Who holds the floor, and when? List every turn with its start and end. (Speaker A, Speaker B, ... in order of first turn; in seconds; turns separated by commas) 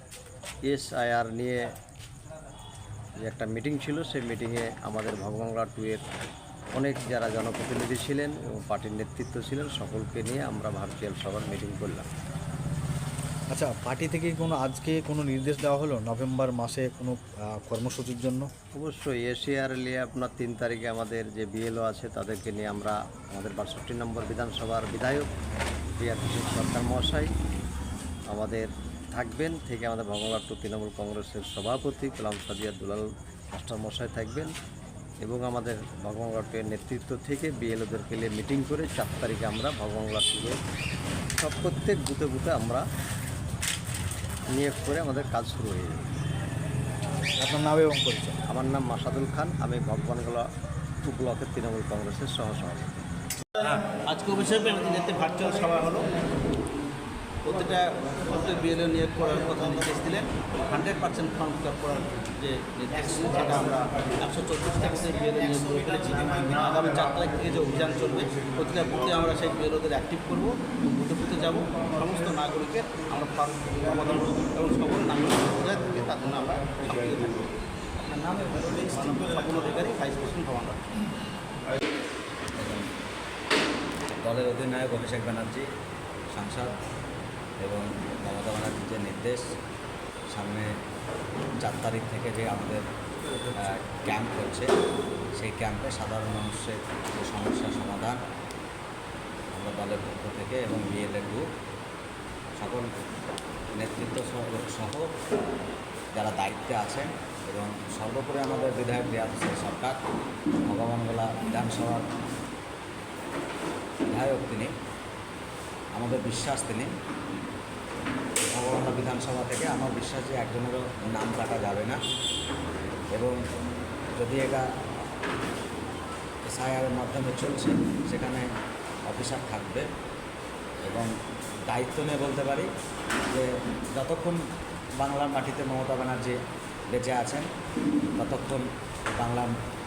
Speaker A: 0.7-1.6, Speaker A: 3.2-6.0, Speaker A: 6.8-12.1, Speaker B: 13.5-18.5, Speaker A: 18.7-25.3, Speaker A: 26.0-27.3, Speaker A: 28.3-34.5, Speaker A: 35.2-40.6, Speaker A: 41.4-42.8, Speaker A: 44.5-46.1, Speaker B: 47.4-48.4, Speaker A: 48.5-50.5, Speaker A: 51.0-53.0, Speaker C: 54.1-56.1, Speaker C: 57.4-77.5, Speaker C: 78.1-80.8, Speaker D: 82.6-82.8, Speaker D: 84.1-85.7, Speaker D: 86.3-86.8, Speaker D: 87.6-89.5, Speaker D: 90.3-90.7, Speaker D: 91.6-92.8, Speaker D: 93.6-94.7, Speaker D: 95.4-98.2, Speaker D: 99.5-101.4, Speaker D: 102.6-102.9, Speaker D: 103.7-105.0, Speaker D: 106.1-109.9, Speaker D: 110.7-112.0, Speaker D: 114.1-114.7, Speaker D: 116.0-116.9, Speaker D: 118.5-122.0, Speaker D: 124.2-124.6, Speaker D: 126.5-128.4, Speaker D: 129.1-129.8, Speaker D: 131.7-132.7, Speaker D: 133.3-134.4, Speaker D: 135.0-136.3, Speaker D: 136.9-137.4, Speaker D: 138.2-139.5